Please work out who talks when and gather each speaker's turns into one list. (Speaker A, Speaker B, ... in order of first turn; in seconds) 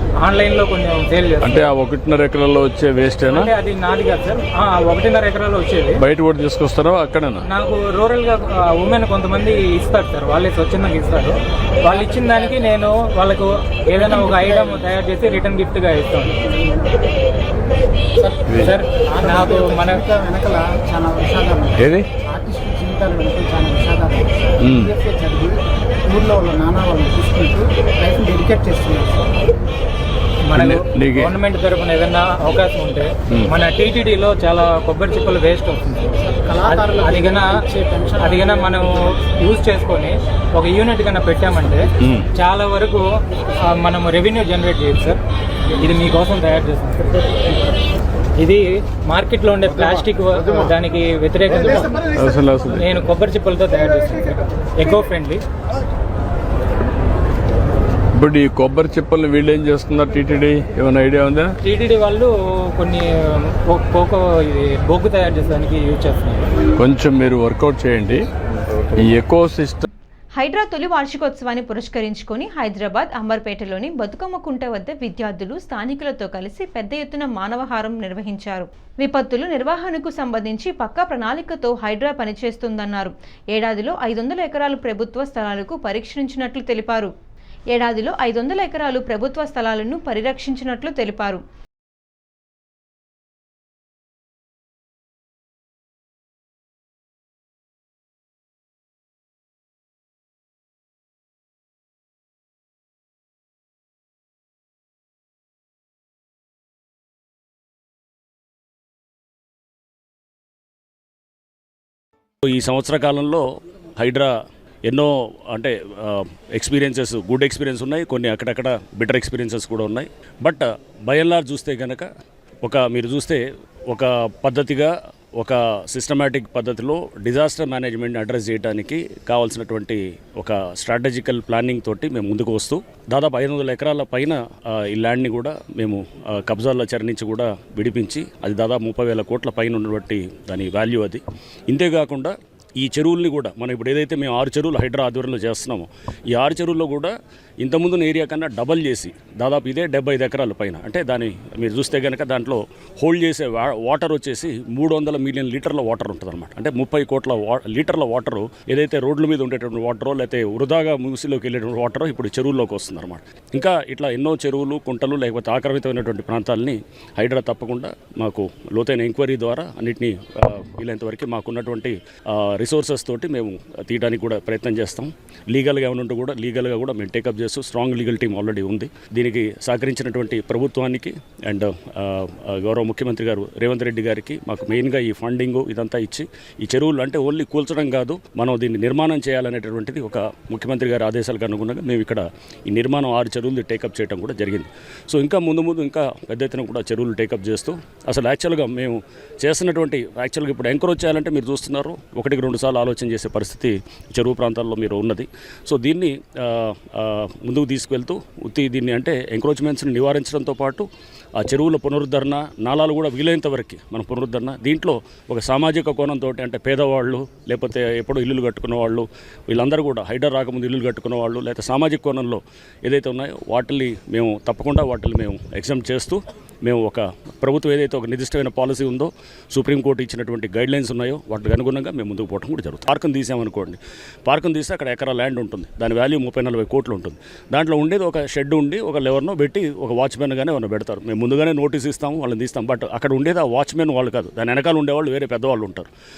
Speaker A: 0.2-1.6, 3.3-6.0, 7.5-16.5, 18.6-20.1, 30.5-37.6, 38.2-41.8, 42.3-43.0, 43.6-45.2, 45.8-47.4, 48.4-52.0, 52.7-55.4, 61.6-66.5
Speaker B: 1.4-3.5, 6.0-7.4, 21.8-22.0, 24.6-24.9, 30.6-31.3, 52.1-52.9, 58.1-61.5, 66.8-68.2, 69.0-69.8
Speaker C: 14.0-14.8, 19.0-29.4, 36.2-38.8
Speaker D: 70.3-87.1, 87.7-91.4
Speaker E: 112.4-113.4, 114.0-114.3, 114.9-122.1, 122.6-210.8, 211.4-245.9